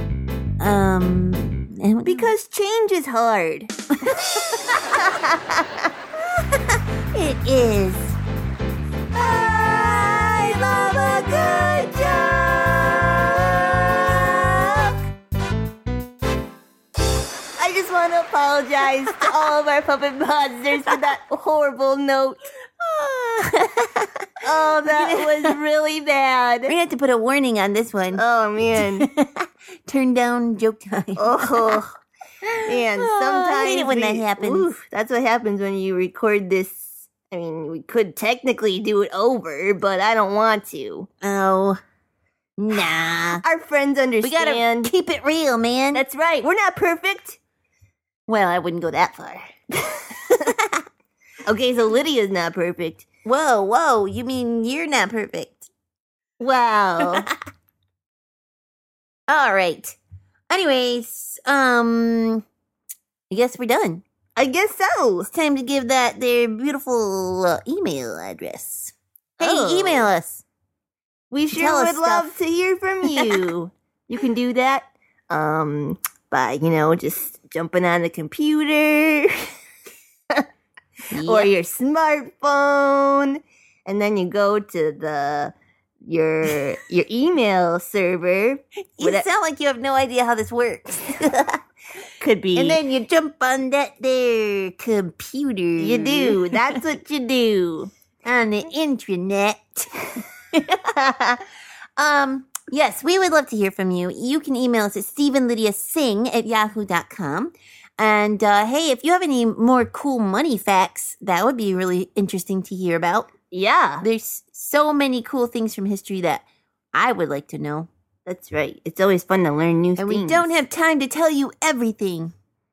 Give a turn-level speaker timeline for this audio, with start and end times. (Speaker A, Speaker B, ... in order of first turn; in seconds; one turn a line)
Speaker A: 0.6-2.3
Speaker B: 2.0-3.7
Speaker A: 4.1-4.5
Speaker B: 4.9-5.6
Speaker A: 7.1-8.2
Speaker B: 9.1-15.0
Speaker B: 17.6-22.4
Speaker A: 22.8-24.1
Speaker B: 24.4-26.7
Speaker A: 24.9-25.5
Speaker A: 26.6-28.2
Speaker B: 28.1-29.1
Speaker A: 28.8-31.8
Speaker B: 31.1-31.9
Speaker A: 32.4-34.7
Speaker B: 32.6-41.1
Speaker A: 41.2-41.8
Speaker A: 42.6-43.4
Speaker B: 42.7-44.9
Speaker A: 44.2-46.0
Speaker B: 45.9-47.4
Speaker A: 48.3-49.4
Speaker B: 51.5-53.1
Speaker A: 53.2-55.7
Speaker B: 56.4-57.3
Speaker A: 59.3-60.0
Speaker A: 60.5-62.4
Speaker A: 63.3-64.0
Speaker B: 64.3-65.3
Speaker A: 65.3-70.4
Speaker B: 69.4-70.1
Speaker B: 71.3-79.3
Speaker A: 71.5-72.3
Speaker A: 81.1-81.5
Speaker B: 81.2-85.5
Speaker B: 86.0-89.3
Speaker A: 89.0-91.5
Speaker B: 92.2-92.8
Speaker A: 92.5-96.8
Speaker B: 95.8-97.9
Speaker A: 98.2-100.8
Speaker B: 101.0-101.4
Speaker A: 102.0-113.3
Speaker B: 113.5-114.0
Speaker A: 114.0-117.9
Speaker B: 118.2-120.5
Speaker A: 120.0-122.3